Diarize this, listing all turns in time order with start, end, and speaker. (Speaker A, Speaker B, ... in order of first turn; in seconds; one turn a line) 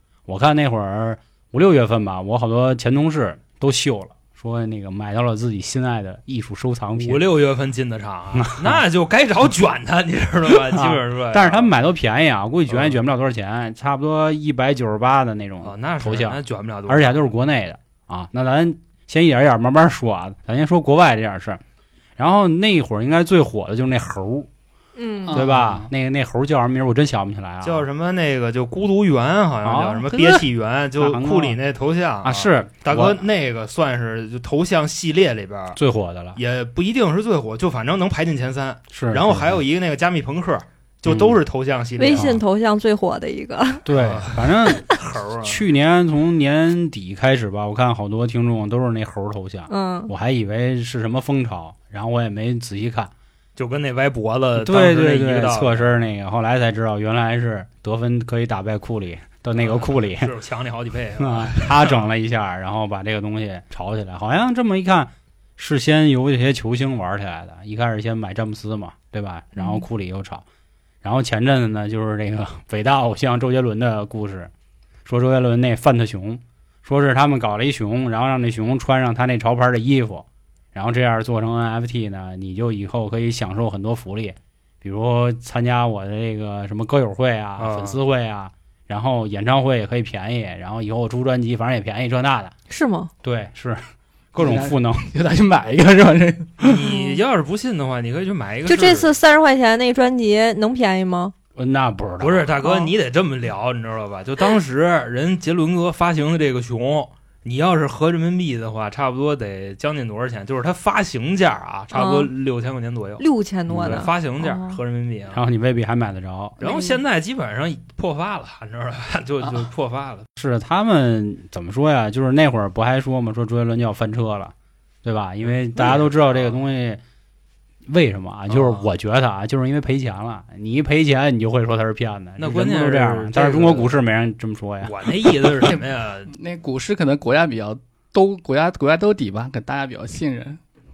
Speaker A: 0.3-7.3
Speaker B: 7.0-11.7
Speaker A: 8.3-8.8
Speaker A: 10.7-21.6
Speaker B: 12.7-13.0
Speaker B: 15.6-17.2
Speaker A: 22.2-24.5
Speaker C: 25.0-25.4
Speaker D: 25.3-25.9
Speaker A: 25.3-27.9
Speaker B: 27.6-35.8
Speaker A: 29.6-30.5
Speaker A: 31.0-31.6
Speaker A: 32.2-33.2
Speaker A: 35.8-36.4
Speaker B: 36.4-42.4
Speaker A: 38.9-39.5
Speaker A: 41.1-41.4
Speaker C: 42.0-43.8
Speaker A: 42.1-42.4
Speaker A: 43.9-44.9
Speaker B: 44.0-45.6
Speaker A: 45.4-53.1
Speaker C: 49.7-50.1
Speaker B: 53.6-56.0
Speaker A: 54.6-60.3
Speaker B: 59.5-62.1
Speaker A: 61.2-70.4
Speaker C: 69.6-69.8
Speaker A: 71.0-74.5
Speaker A: 75.0-92.5
Speaker B: 87.6-88.0
Speaker C: 92.7-93.1
Speaker A: 93.2-93.8
Speaker A: 94.3-95.1
Speaker D: 94.4-96.8
Speaker B: 96.6-99.1
Speaker C: 96.9-97.2
Speaker C: 98.7-101.3
Speaker A: 101.6-102.5
Speaker B: 102.2-115.4
Speaker C: 102.6-102.9
Speaker C: 111.9-112.3
Speaker C: 113.2-114.8
Speaker A: 113.7-114.1
Speaker A: 115.3-116.6
Speaker C: 116.6-117.0
Speaker B: 116.6-120.3
Speaker A: 120.4-124.5
Speaker A: 125.0-127.0
Speaker B: 125.4-126.6
Speaker A: 127.9-134.9
Speaker B: 128.5-128.9
Speaker B: 132.4-134.0
Speaker B: 134.8-136.3
Speaker D: 135.6-140.6